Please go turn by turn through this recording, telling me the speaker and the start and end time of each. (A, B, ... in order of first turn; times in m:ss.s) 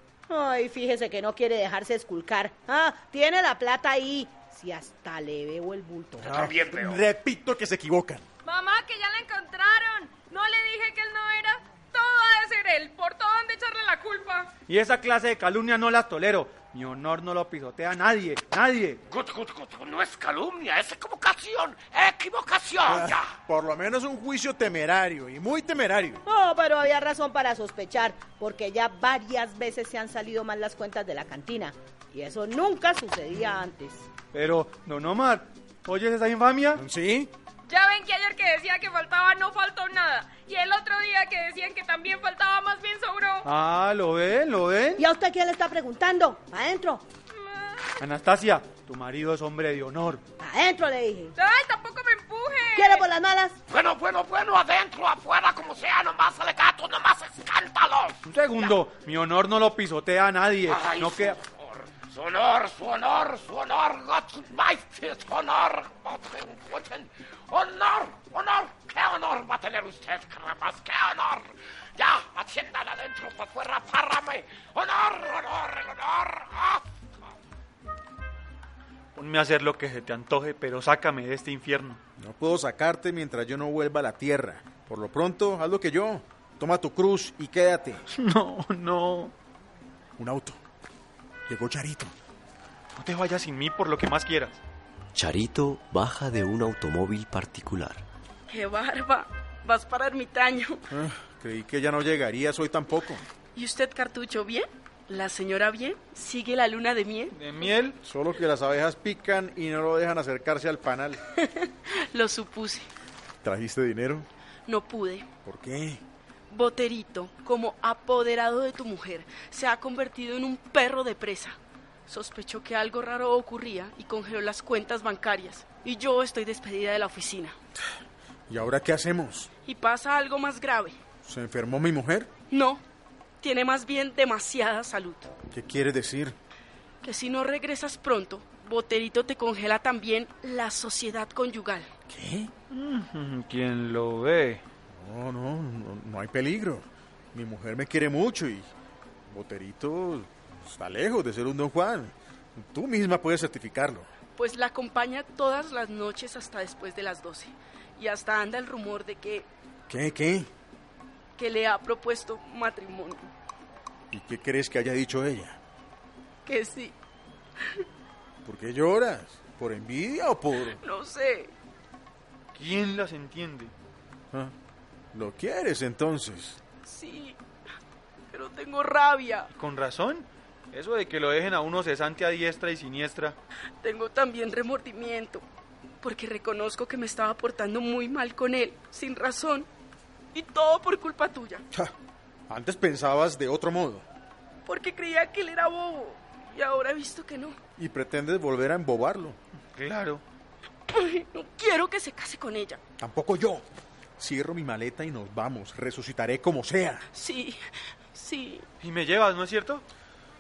0:00.3-0:06.5 A
0:06.2-0:07.0 B
0:06.2-0:08.2 C
0:08.4-0:14.5 D
0:14.7-0:19.0 E
0:19.1-0:23.3 B
0:22.8-0:26.2 C
0:26.2-0:34.1 A
0:34.3-0:36.8 E
0:36.8-0:37.3 C
0:37.6-0:43.5 D
0:43.4-0:45.0 E
0:45.0-0:47.0 A
0:47.3-0:48.0 D
0:48.0-0:50.2 E
0:50.4-0:51.3 A
0:51.4-0:53.0 D
0:52.7-0:53.6 A
0:53.7-0:58.7 B
0:58.3-1:01.4 E
1:00.7-1:16.8 B
1:19.2-1:22.0 E
1:22.2-1:28.0 C
1:28.1-1:29.3 E
1:30.2-1:30.6 C
1:31.5-1:32.1 C
1:32.9-1:34.6 E
1:35.1-1:38.0 F
1:38.5-1:40.8 G
1:40.9-1:43.2 C
1:43.5-1:47.4 G
1:47.3-1:48.0 E
1:48.0-1:51.2 C
1:51.4-1:52.9 G
1:53.4-1:54.3 C
1:54.7-1:55.2 G
1:55.4-1:56.0 C
1:56.5-2:07.6 G
2:08.5-2:09.5 C
2:09.6-2:11.0 G
2:11.2-2:12.3 C
2:12.5-2:12.8 G
2:13.4-2:15.3 G
2:15.5-2:16.4 C
2:17.0-2:21.9 G
2:22.1-2:22.5 C
2:22.7-2:24.6 E
2:24.9-2:28.7 C
2:29.2-2:34.1 C
2:34.4-2:39.5 G
2:39.9-2:40.5 C
2:41.4-2:43.3 G
2:44.1-2:45.6 C
2:46.4-2:46.9 G
2:48.4-2:50.8 C
2:50.7-2:51.5 G
2:52.5-2:53.7 E
2:55.1-2:56.6 C
2:56.8-2:57.4 G
2:58.3-2:59.5 G
2:59.5-3:03.4 E
3:03.8-3:05.4 G
3:06.0-3:09.7 G
3:10.3-3:11.6 G
3:12.5-3:14.0 C
3:14.6-3:17.6 G
3:17.8-3:19.4 C
3:19.8-3:20.2 E
3:20.9-3:22.8 G
3:23.0-3:23.6 C
3:24.2-3:27.0 C
3:27.1-3:27.6 G
3:28.1-3:28.6 G
3:28.8-3:29.8 E